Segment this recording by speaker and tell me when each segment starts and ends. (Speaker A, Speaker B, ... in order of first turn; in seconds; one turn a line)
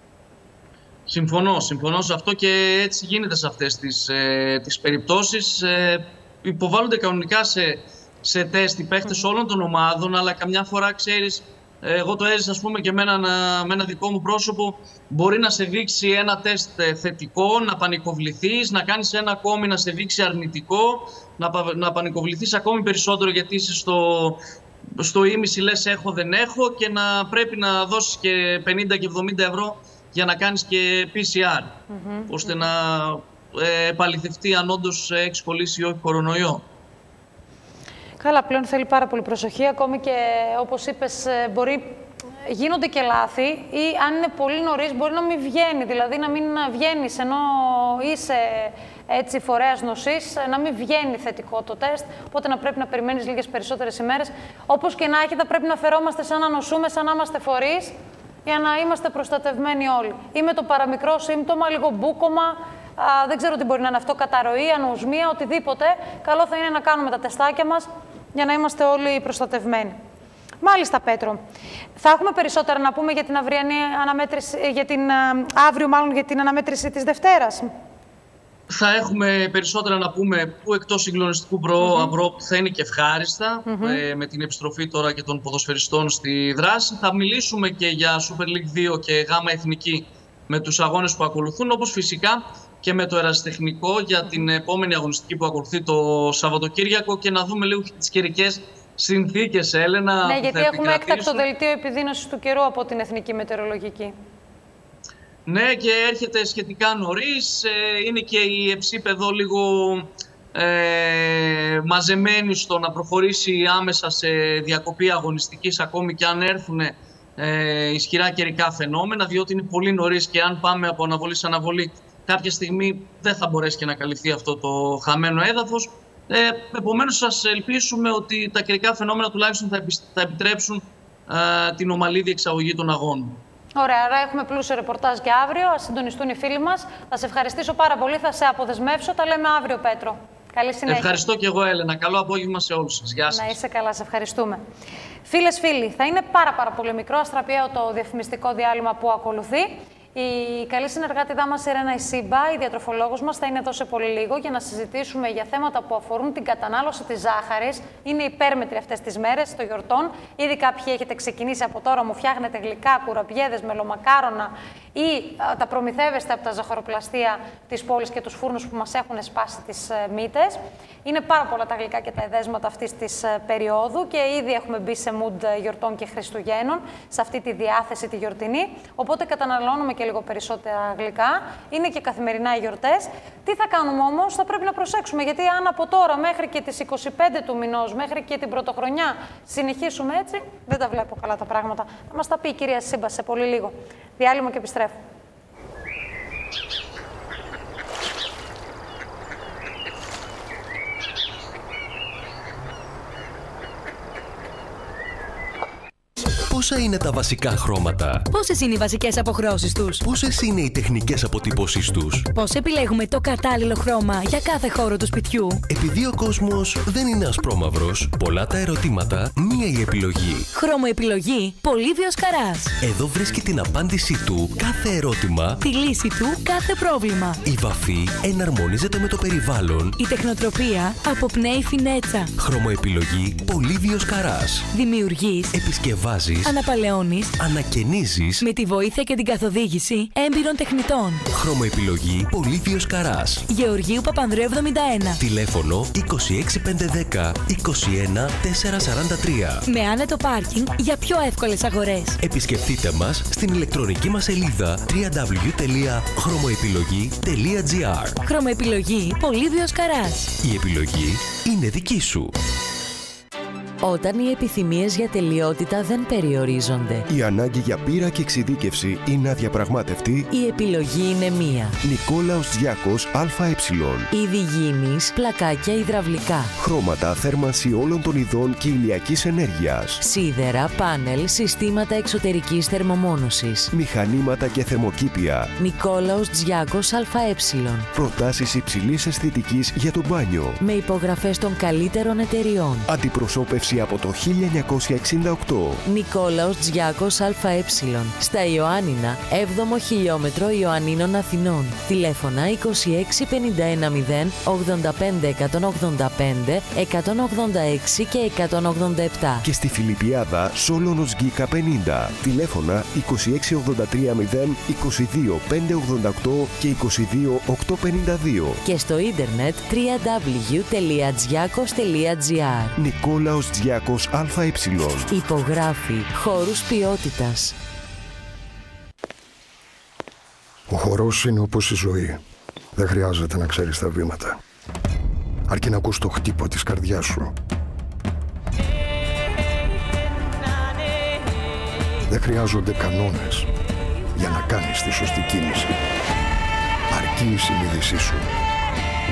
Speaker A: 1.1-24.4
Speaker A: 25.0-31.7
Speaker B: 31.9-32.6
Speaker A: 32.3-36.6
Speaker B: 38.2-57.9
Speaker B: 58.5-70.0
Speaker B: 70.6-71.4
Speaker B: 72.0-77.7
Speaker A: 78.7-101.4
Speaker B: 81.8-82.1
Speaker B: 83.7-84.0
Speaker B: 100.2-104.2
Speaker A: 105.5-133.4
Speaker B: 133.8-141.2
Speaker A: 140.9-143.6
Speaker B: 143.3-144.6
Speaker B: 145.3-195.0
Speaker C: 206.5-208.3
Speaker D: 208.3-210.0
Speaker C: 210.0-212.3
Speaker D: 212.3-215.6
Speaker C: 215.7-220.5
Speaker D: 220.5-222.7
Speaker C: 222.8-225.6
Speaker D: 225.6-227.4
Speaker C: 227.4-230.0
Speaker D: 230.0-232.3
Speaker C: 232.4-234.7
Speaker D: 234.7-235.6
Speaker C: 235.5-236.5
Speaker D: 236.4-237.3
Speaker C: 237.4-238.4
Speaker D: 238.4-241.2
Speaker C: 241.3-243.4
Speaker D: 243.5-245.2
Speaker C: 245.2-249.7
Speaker D: 249.7-252.2
Speaker C: 252.2-258.2
Speaker D: 258.2-260.4
Speaker C: 260.4-262.3
Speaker E: 263.8-267.0
Speaker F: 267.1-270.3
Speaker E: 270.3-271.8
Speaker F: 271.8-274.1
Speaker E: 274.1-276.5
Speaker F: 276.6-280.0
Speaker E: 280.0-283.7
Speaker F: 283.7-285.5
Speaker E: 285.6-287.9
Speaker F: 287.9-290.6
Speaker E: 290.6-292.9
Speaker F: 292.9-295.8
Speaker E: 295.9-309.4
Speaker F: 309.4-318.6
Speaker E: 318.6-322.7
Speaker F: 322.8-325.1
Speaker E: 325.1-327.5
Speaker G: 330.7-332.2
Speaker G: 332.8-334.4
Speaker G: 335.5-337.3
Speaker G: 342.1-343.5
Speaker G: 344.2-345.8
Speaker G: 346.9-348.3